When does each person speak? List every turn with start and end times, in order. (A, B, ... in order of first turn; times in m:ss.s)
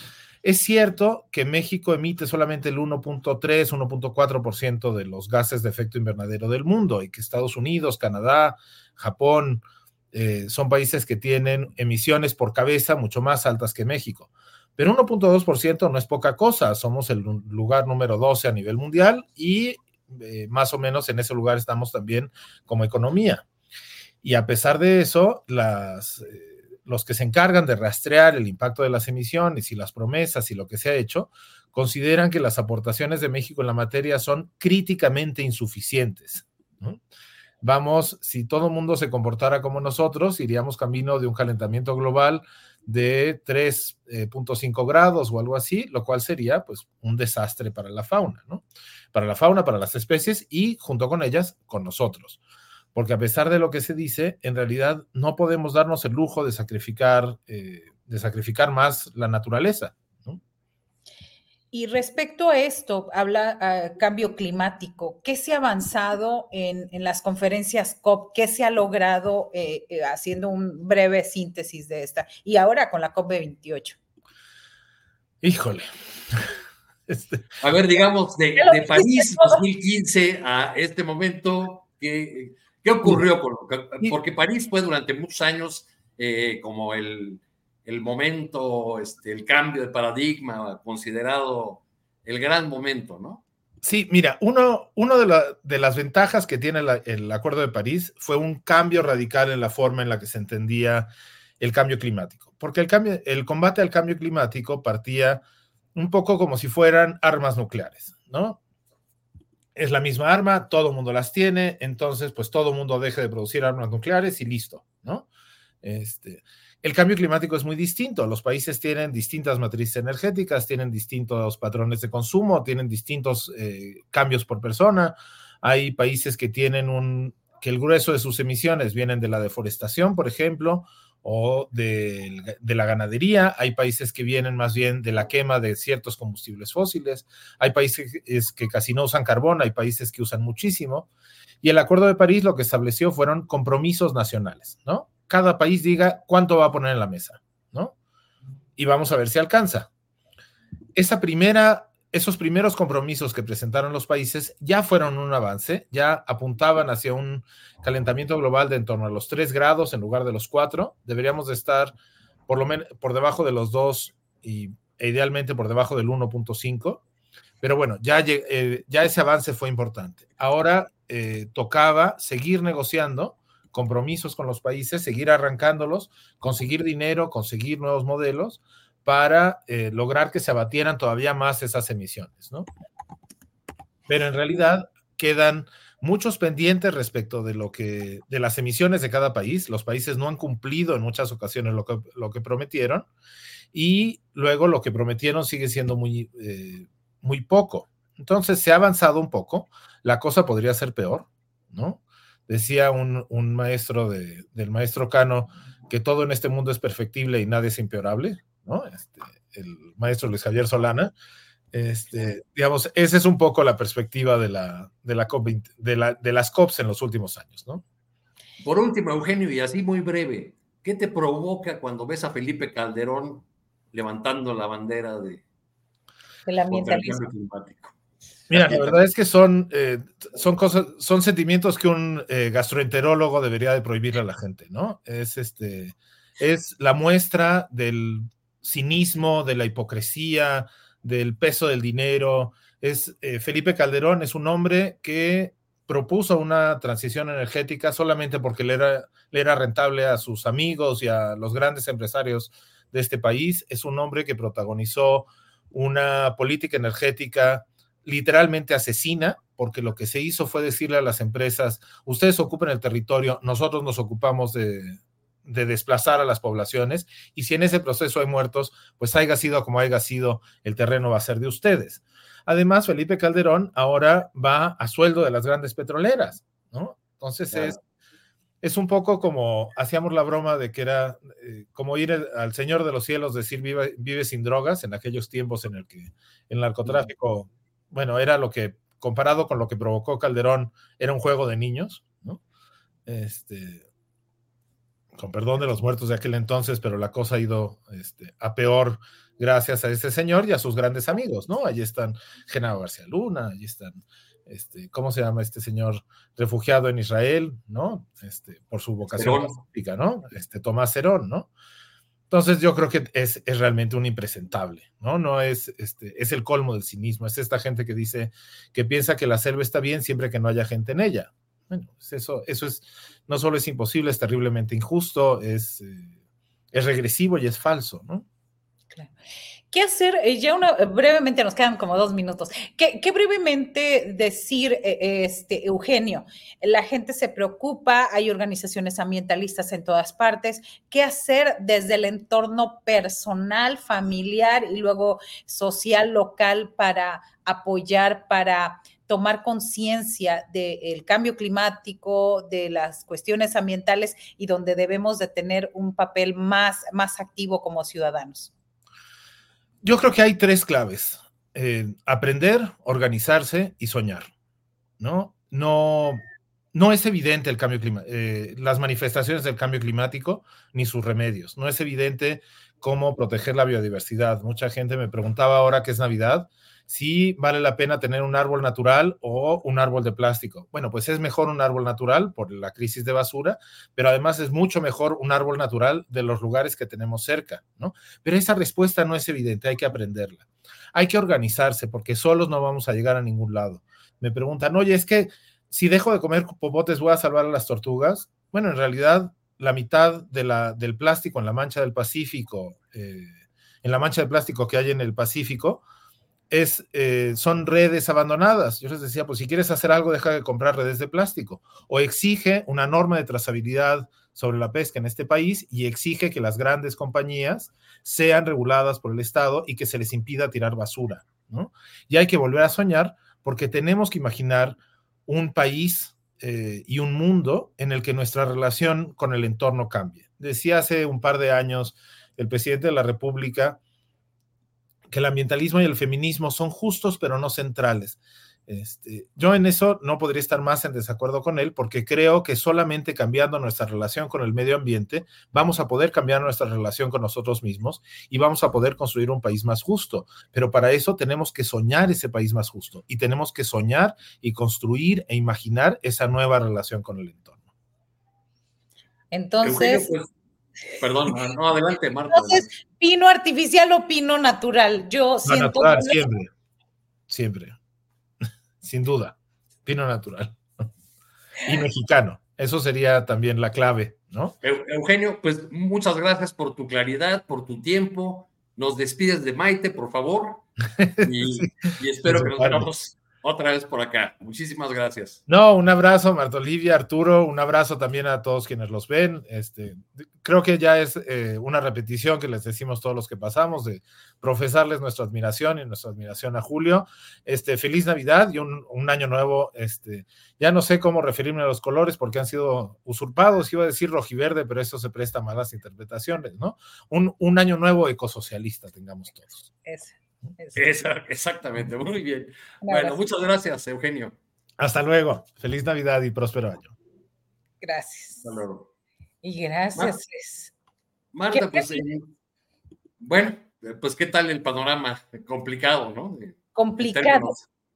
0:00.4-0:09.6 A
0:10.1-0:23.4 A
0:24.2-0:37.0 A
0:37.6-0:52.4 A
0:52.9-1:00.4 A
1:01.7-1:14.0 B
1:15.4-1:15.9 A
1:17.1-1:17.4 A
1:17.6-1:33.4 C
1:18.6-1:19.6 B
1:33.8-1:45.4 A
1:45.9-1:48.6 A
1:49.8-1:55.2 A
1:55.8-2:21.1 A
2:21.6-2:27.9 A
2:28.8-2:29.9 A
2:30.9-2:41.9 A
2:42.5-2:47.0 A
2:47.6-3:02.7 A
3:04.1-3:13.1 A
3:13.7-3:31.1 A
3:31.7-3:37.8 A
3:38.6-3:45.4 C
3:46.5-3:47.2 B
3:46.7-3:47.9 C
3:48.5-3:49.0 C
3:48.5-4:37.8 A
4:38.6-4:52.4 A
4:53.0-4:53.8 A
4:55.2-5:11.5 A
5:09.2-5:09.5 C
5:12.3-5:26.1 A
5:26.7-5:28.2 A
5:29.7-5:58.5 B
5:59.8-6:04.3 A
6:05.0-6:06.2 A
6:06.7-6:45.8 A
6:46.5-7:13.8 A
7:15.1-7:37.6 A
7:39.3-7:40.1 B
7:39.6-7:40.3 C
7:41.0-7:42.7 C
7:42.3-7:46.2 B
7:45.4-7:46.5 A
7:47.3-7:47.8 A
7:48.8-7:49.3 A
7:49.8-7:50.6 A
7:51.6-7:54.5 A
7:54.6-8:00.6 C
8:01.0-8:02.9 A
8:01.2-8:05.4 C
8:05.5-8:29.7 A
8:29.8-8:30.8 B
8:30.7-8:34.3 C
8:32.8-8:33.2 B
8:34.8-8:36.9 A
8:37.8-8:38.4 B
8:38.4-8:38.9 C
8:39.4-8:40.7 B
8:41.3-8:42.2 C
8:41.5-8:42.0 B
8:43.2-8:47.6 C
8:46.8-8:47.5 B